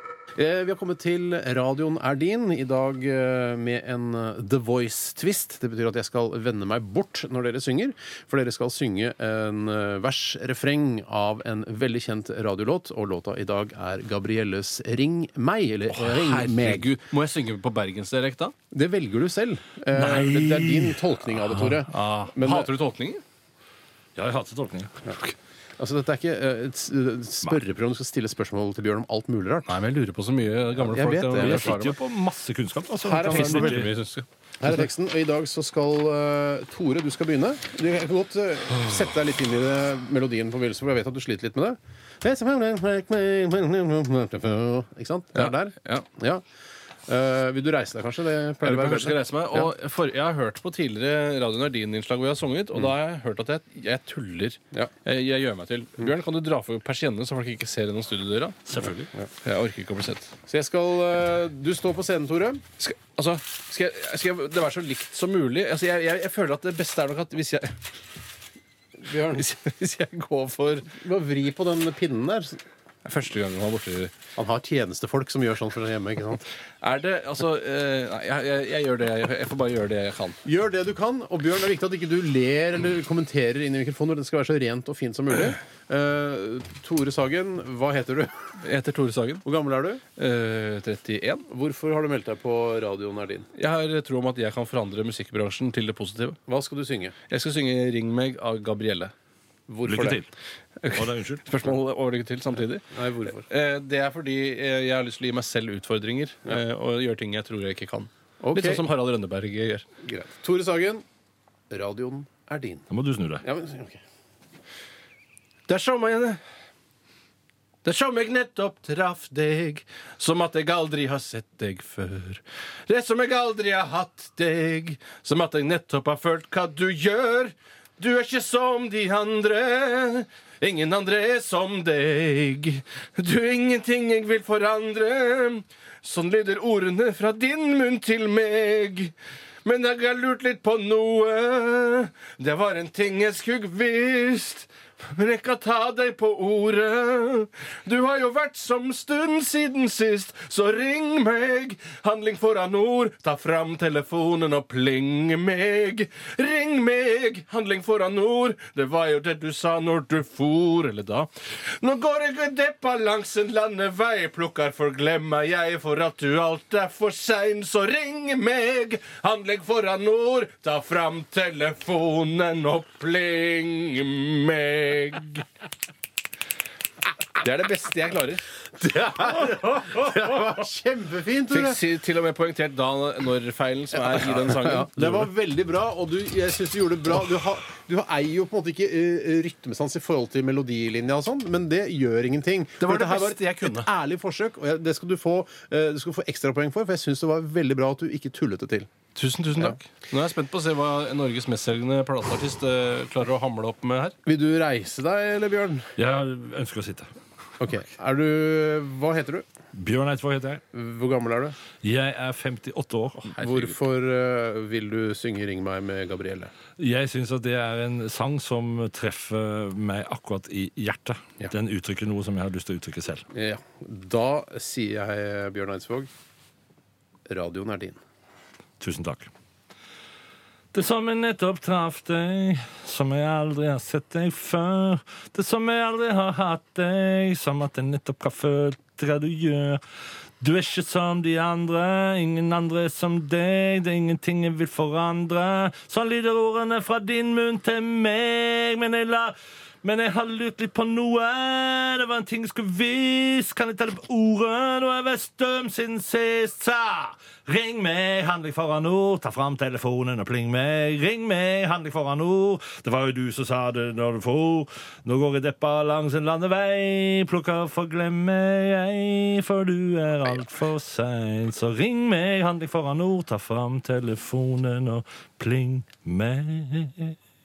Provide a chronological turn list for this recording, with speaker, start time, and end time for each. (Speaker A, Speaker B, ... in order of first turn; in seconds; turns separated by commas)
Speaker A: 0.4-16.9, Speaker B: 15.9-18.5, Speaker A: 18.7-21.8, Speaker C: 19.9-21.5, Speaker B: 21.5-23.2, Speaker A: 22.4-22.7, Speaker C: 24.2-25.1, Speaker A: 25.8-29.7, Speaker B: 29.7-32.0, Speaker A: 30.9-31.4, Speaker C: 31.3-33.9, Speaker A: 33.1-33.5, Speaker B: 33.2-34.8, Speaker A: 34.6-46.4, Speaker B: 45.4-46.1, Speaker A: 47.1-49.2, Speaker B: 48.6-60.3, Speaker A: 60.5-62.6, Speaker B: 62.8-67.8, Speaker A: 69.0-69.4, Speaker B: 69.2-70.9, Speaker A: 70.9-72.6, Speaker B: 73.0-74.1, Speaker A: 74.4-76.5, Speaker B: 76.8-80.4, Speaker A: 80.5-88.3, Speaker B: 88.6-89.4, Speaker A: 89.5-90.0, Speaker B: 90.2-91.5, Speaker A: 91.5-93.5, Speaker B: 93.5-96.4, Speaker A: 96.5-97.1, Speaker B: 97.3-99.1, Speaker C: 99.9-100.3, Speaker B: 100.8-109.8, Speaker C: 100.9-101.5, Speaker A: 102.9-103.4, Speaker A: 108.4-108.8, Speaker A: 110.1-111.0, Speaker A: 111.7-112.8, Speaker C: 112.9-113.5, Speaker A: 113.5-114.0, Speaker B: 115.7-116.4, Speaker B: 117.8-139.1, Speaker B: 139.6-175.4, Speaker B: 177.4-178.4, Speaker A: 178.8-181.7, Speaker B: 181.5-185.3, Speaker A: 184.7-198.9, Speaker B: 192.8-193.9, Speaker B: 199.2-204.2, Speaker A: 204.3-205.8, Speaker C: 206.0-207.1, Speaker A: 207.6-209.4, Speaker C: 209.7-210.6, Speaker A: 210.8-211.5, Speaker C: 211.8-213.3, Speaker B: 213.3-213.8, Speaker A: 213.4-216.5, Speaker C: 216.8-223.2, Speaker A: 223.3-226.1, Speaker A: 227.3-228.0, Speaker C: 228.8-229.3, Speaker C: 230.7-239.8, Speaker C: 240.4-277.2